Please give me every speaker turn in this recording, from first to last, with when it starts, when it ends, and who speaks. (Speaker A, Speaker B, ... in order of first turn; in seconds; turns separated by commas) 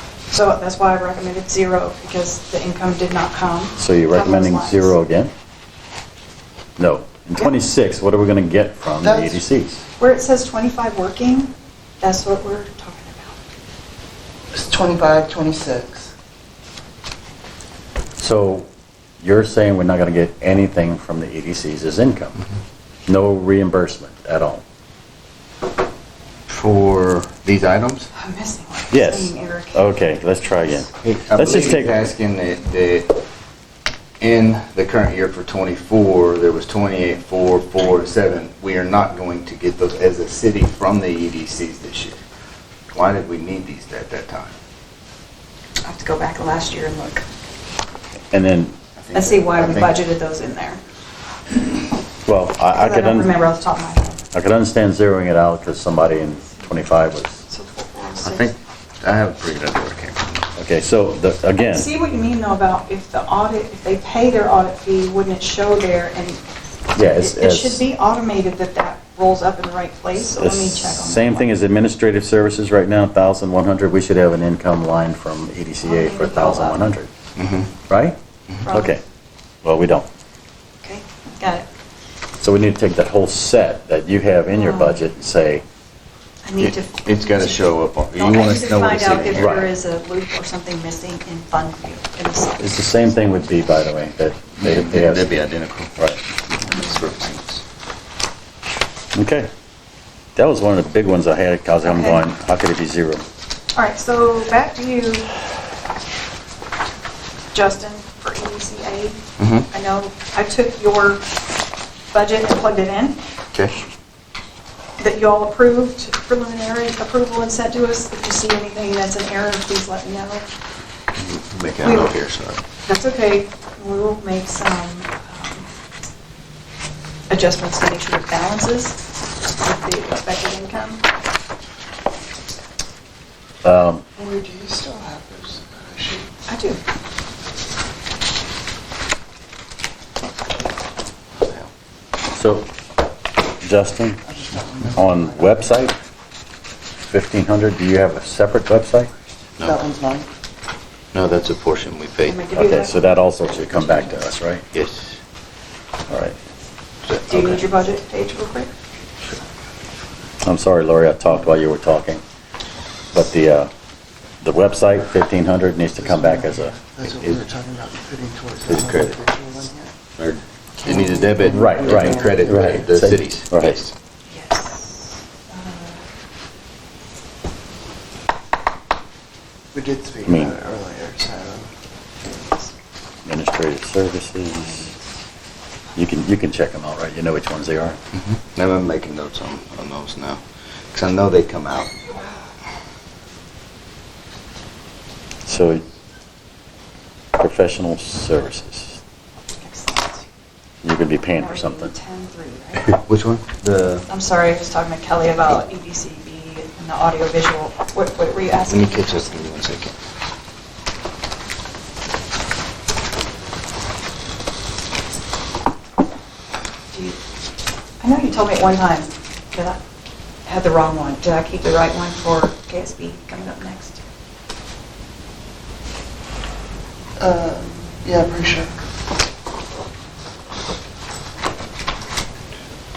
Speaker A: 0.3-5.0, Speaker B: 3.8-5.3, Speaker B: 6.8-9.8, Speaker C: 9.0-9.4, Speaker A: 10.0-13.4, Speaker C: 14.5-16.1, Speaker B: 18.2-18.7, Speaker B: 19.2-22.4, Speaker B: 23.1-24.6, Speaker D: 26.5-28.1, Speaker A: 28.2-29.9, Speaker B: 28.9-32.0, Speaker D: 31.2-33.1, Speaker D: 34.2-42.2, Speaker D: 42.9-44.5, Speaker A: 45.8-47.2, Speaker B: 48.3-48.8, Speaker D: 49.0-50.0, Speaker A: 49.1-50.8, Speaker B: 52.3-53.3, Speaker A: 52.8-54.2, Speaker B: 54.3-57.4, Speaker A: 57.5-58.5, Speaker D: 58.2-60.4, Speaker B: 60.6-61.9, Speaker A: 61.7-66.4, Speaker B: 67.0-67.8, Speaker A: 67.0-71.5, Speaker B: 70.2-77.1, Speaker A: 75.8-76.8, Speaker D: 77.4-77.7, Speaker B: 77.9-79.0, Speaker A: 78.6-79.0, Speaker B: 79.6-80.1, Speaker A: 80.8-81.7, Speaker B: 82.4-85.6, Speaker A: 84.5-85.0, Speaker A: 86.5-93.0, Speaker D: 86.6-89.5, Speaker B: 89.3-89.7, Speaker B: 92.6-95.3, Speaker D: 94.6-96.0, Speaker D: 96.5-97.6, Speaker B: 99.1-99.5, Speaker B: 100.4-103.2, Speaker A: 101.8-102.2, Speaker A: 103.8-105.3, Speaker A: 107.5-111.3, Speaker D: 109.4-109.7, Speaker A: 112.1-113.2, Speaker A: 115.0-120.5, Speaker D: 121.2-122.6, Speaker A: 121.8-122.1, Speaker A: 122.8-125.7, Speaker A: 127.3-129.0, Speaker A: 129.6-131.0, Speaker B: 133.6-134.1, Speaker C: 134.2-136.3, Speaker A: 136.5-136.8, Speaker D: 141.4-141.7, Speaker B: 142.3-142.7, Speaker B: 143.6-144.2, Speaker C: 144.3-145.6, Speaker B: 144.9-146.0, Speaker B: 147.0-149.1, Speaker C: 149.6-150.3, Speaker D: 151.1-152.4, Speaker A: 152.2-153.0, Speaker B: 152.6-154.7, Speaker D: 154.7-155.2, Speaker B: 156.1-156.4, Speaker D: 157.1-157.6, Speaker A: 157.3-158.7, Speaker B: 160.4-162.2, Speaker B: 163.1-163.7, Speaker B: 164.4-166.8, Speaker C: 166.1-169.9, Speaker D: 167.1-167.4, Speaker D: 168.7-169.2, Speaker D: 170.2-173.9, Speaker C: 170.8-172.5, Speaker B: 171.5-173.8, Speaker A: 174.3-176.0, Speaker C: 179.7-181.7, Speaker B: 180.2-180.6, Speaker B: 183.2-184.9, Speaker A: 184.5-185.1, Speaker B: 186.0-188.0, Speaker D: 188.1-192.1, Speaker B: 195.5-195.8, Speaker B: 197.4-199.0, Speaker A: 199.6-200.2, Speaker B: 200.8-201.9, Speaker A: 201.4-203.0, Speaker D: 203.1-204.1, Speaker A: 204.1-209.5, Speaker D: 208.7-209.9, Speaker A: 216.9-217.2, Speaker A: 218.0-219.8, Speaker A: 220.5-224.0, Speaker C: 227.2-228.7